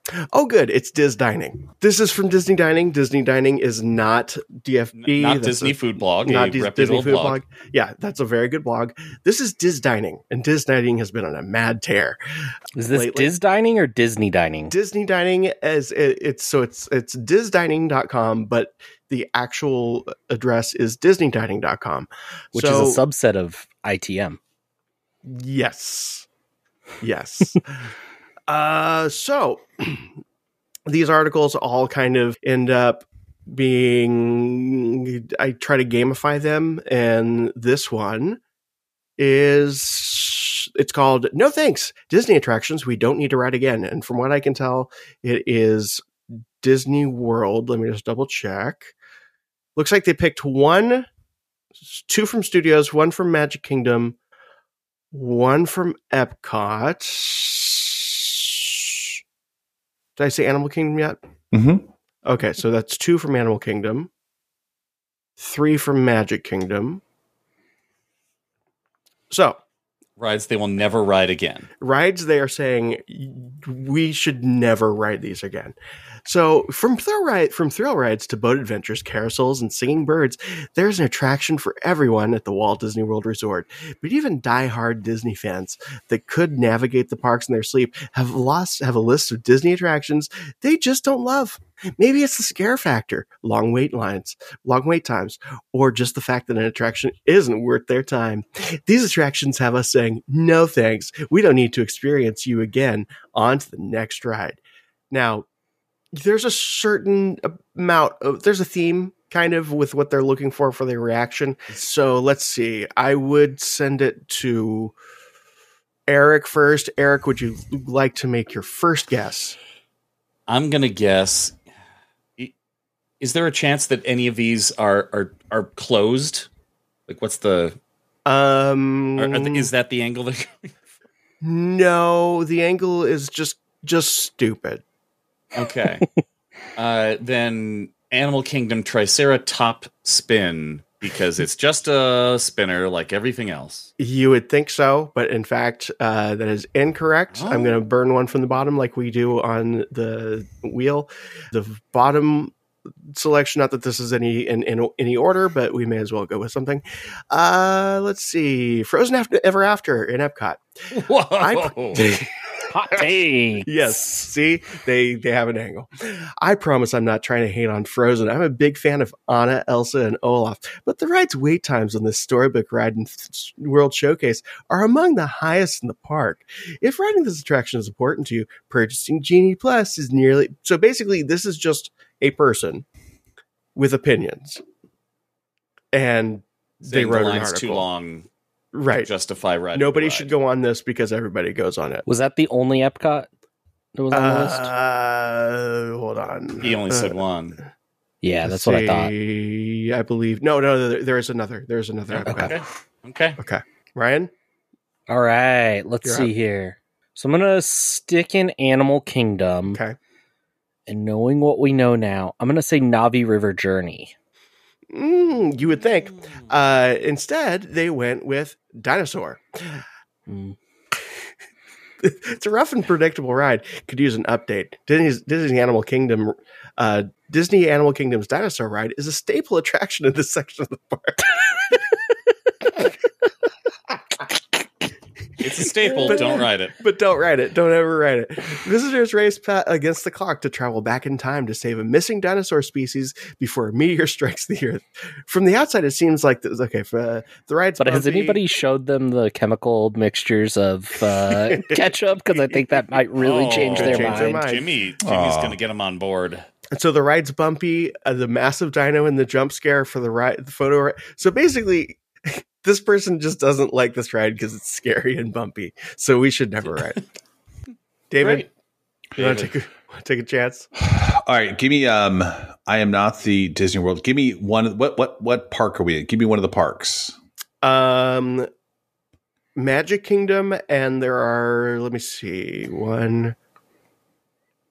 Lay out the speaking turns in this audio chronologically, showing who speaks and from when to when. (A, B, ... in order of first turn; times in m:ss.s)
0:00.3-0:12.2 A
0:05.0-0:07.4 B
0:12.8-0:14.7 C
0:12.9-0:13.3 A
0:14.7-0:23.0 A
0:22.5-0:24.4 C
0:25.2-0:26.3 A
0:27.0-0:27.9 A
0:28.5-0:30.1 A
0:30.9-0:38.4 A
0:39.2-0:46.0 A
0:46.6-0:48.9 A
0:49.8-0:51.1 A
0:51.8-0:54.2 A
0:55.1-0:59.2 A
1:00.2-1:01.2 A
1:01.5-1:01.9 D
1:02.2-1:04.1 A
1:05.4-1:07.0 A
1:09.3-1:09.6 A
1:10.2-1:11.7 B
1:11.8-1:44.6 A
1:45.1-1:45.5 A
1:46.1-1:55.0 A
1:56.1-1:59.6 A
2:00.5-2:01.6 B
2:03.2-2:06.5 B
2:07.1-2:07.8 B
2:08.3-2:09.7 A
2:09.2-2:10.8 B
2:11.4-2:14.8 A
2:15.6-2:16.1 B
2:16.8-2:23.9 B
2:24.0-2:32.6 A
2:27.3-2:27.8 B
2:33.1-2:40.6 A
2:40.9-2:42.2 B
2:41.4-2:42.3 A
2:42.7-2:44.3 C
2:43.6-3:02.9 A
3:03.8-3:04.6 A
3:05.9-3:07.8 A
3:06.8-3:08.3 B
3:08.7-3:09.1 A
3:08.9-3:10.3 B
3:09.7-3:12.1 A
3:12.1-3:13.3 C
3:14.0-3:14.7 C
3:14.1-3:17.2 A
3:16.6-3:17.6 B
3:18.2-3:19.1 C
3:18.4-3:22.5 A
3:22.1-3:23.4 B
3:22.3-3:22.5 C
3:23.4-3:24.3 A
3:25.1-3:29.8 C
3:26.0-3:26.3 A
3:29.7-3:30.0 A
3:30.9-3:34.1 C
3:34.9-3:39.8 A
3:40.3-3:40.6 C
3:42.0-3:51.8 A
3:55.4-3:56.7 B
3:55.9-4:08.4 A
4:07.8-4:14.4 C
4:11.3-4:11.8 A
4:12.4-4:12.6 A
4:13.2-4:16.5 B
4:13.5-4:14.7 A
4:15.0-4:15.6 D
4:16.7-4:27.0 A
4:28.1-4:28.5 A
4:28.2-4:28.5 B
4:29.2-4:29.5 B
4:29.2-4:30.7 A
4:30.8-4:37.2 D
4:37.6-4:38.5 A
4:39.6-4:43.4 A